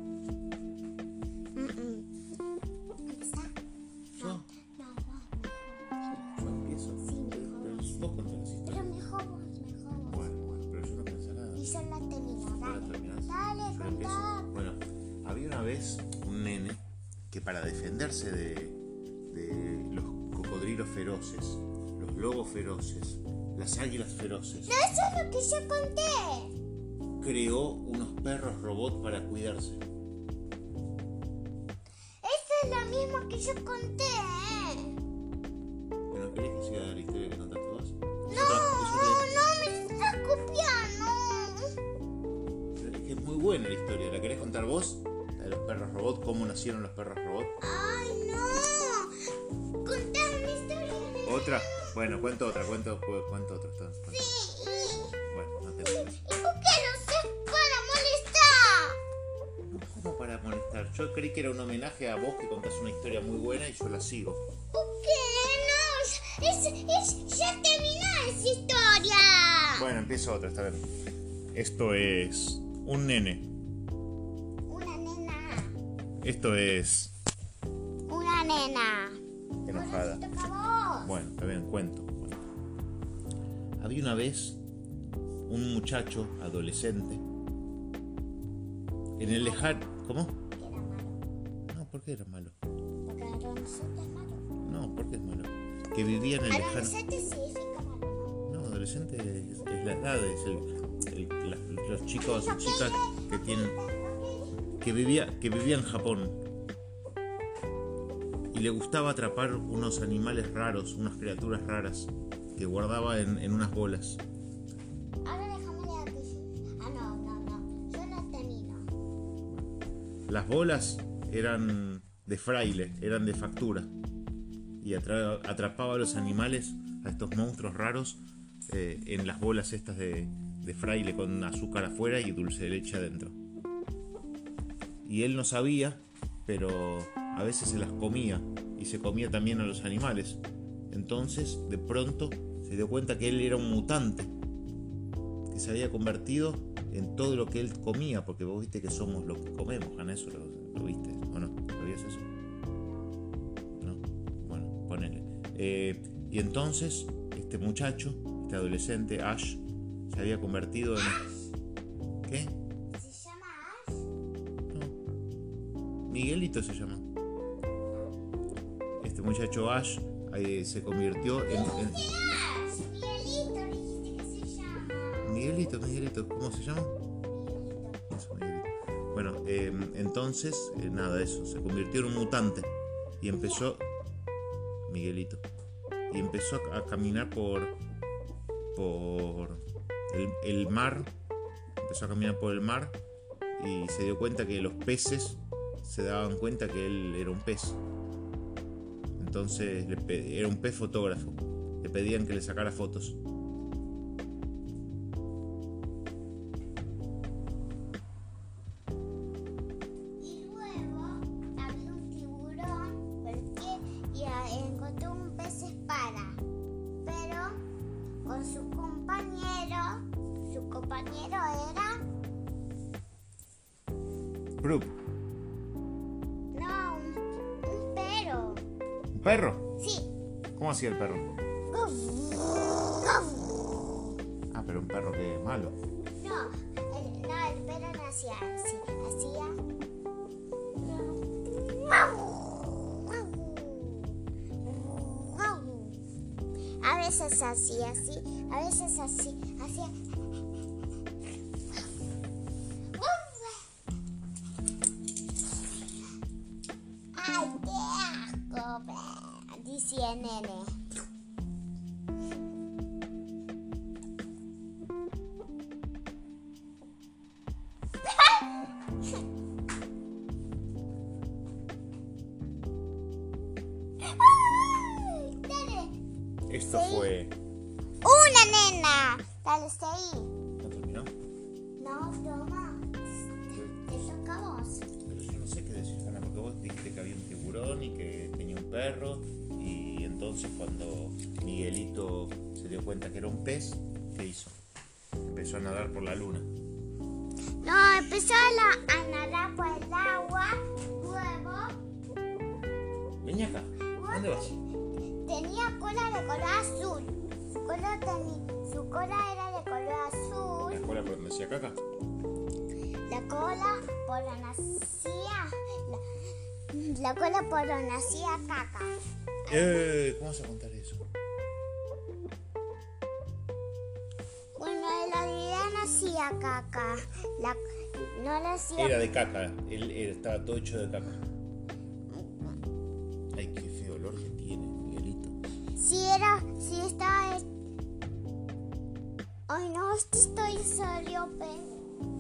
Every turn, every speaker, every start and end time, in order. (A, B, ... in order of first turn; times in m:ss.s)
0:01.5-0:02.1 A
0:03.0-0:03.5 A
0:04.2-0:04.5 B
0:04.2-0:05.9 A
0:06.1-0:08.9 B
0:07.0-0:08.0 A
0:08.6-0:10.3 A
0:10.1-0:11.6 B
0:11.5-0:14.5 A
0:12.6-0:24.8 B
0:24.7-0:26.5 A
0:27.2-0:29.8 B
0:32.2-0:35.0 A
0:36.1-0:39.5 B
0:38.3-0:41.7 A
0:42.8-0:47.6 B
0:47.6-0:49.1 A
0:49.8-0:51.9 A
0:51.2-0:54.4 B
0:54.1-0:55.2 A
0:55.3-0:56.1 B
0:55.8-0:59.0 A
0:59.7-1:04.4 B
1:04.7-1:09.9 A
1:09.7-1:10.9 B
1:11.5-1:13.5 B
1:14.7-1:15.8 A
1:16.2-1:17.1 B
1:18.1-1:21.1 A
1:19.6-1:20.2 B
1:21.0-1:22.4 B
1:23.8-1:24.6 B
1:25.5-1:27.2 B
1:29.2-1:30.4 B
1:29.2-1:29.8 A
1:30.6-1:31.2 A
1:31.7-1:32.6 B
1:33.1-1:34.4 A
1:34.6-1:37.0 B
1:36.5-1:38.3 A
1:38.5-1:43.8 B
1:42.2-1:44.6 A
1:44.8-1:46.4 B
1:48.5-1:54.2 B
1:55.2-1:58.9 A
2:00.3-2:03.9 B
2:04.8-2:13.4 B
2:15.0-2:24.3 B
2:25.5-2:32.3 B
2:33.8-2:41.2 B
2:41.0-2:41.5 A
2:42.3-2:42.5 B
2:42.9-2:44.0 A
2:44.7-2:45.0 B
2:46.1-2:47.0 B
2:49.0-2:52.0 B
2:51.4-2:55.4 A
2:55.2-2:57.0 B
2:57.2-2:58.0 A
2:58.1-3:03.8 B
3:03.3-3:03.6 A
3:04.9-3:05.4 B
3:06.1-3:07.8 B
3:08.8-3:11.1 B
3:11.8-3:13.0 B
3:13.6-3:17.8 B
3:19.2-3:23.2 B
3:30.2-3:36.4 A
3:37.0-3:37.6 A
3:38.2-3:42.0 A
3:44.6-3:44.9 B
3:46.5-3:48.7 A
3:49.1-3:49.7 B
3:49.8-3:50.1 A
3:50.6-3:51.3 B
3:51.7-3:53.9 A
3:54.5-3:55.8 B
3:56.2-3:59.6 A
4:00.8-4:06.0 A
4:06.8-4:09.9 A
4:12.9-4:13.7 A
4:17.1-4:20.8 A
4:28.1-4:28.5 A
4:34.0-4:35.9 A
4:36.5-4:37.3 B
4:36.6-4:37.1 A
4:38.0-4:40.3 A
4:40.6-4:41.1 B
4:41.8-4:42.9 A
4:43.4-4:44.9 A
4:45.0-4:54.6 B
4:55.2-4:56.5 B
4:57.6-5:01.8 A
5:03.2-5:04.5 B
5:03.9-5:04.6 A
5:05.2-5:10.9 A
5:10.7-5:11.8 B
5:13.1-5:16.2 A
5:16.7-5:18.9 A
5:19.5-5:21.0 B
5:24.5-5:29.0 A
5:28.8-5:31.2 B
5:32.1-5:32.6 A
5:33.3-5:35.4 B
5:35.8-5:37.5 A
5:39.5-5:41.9 A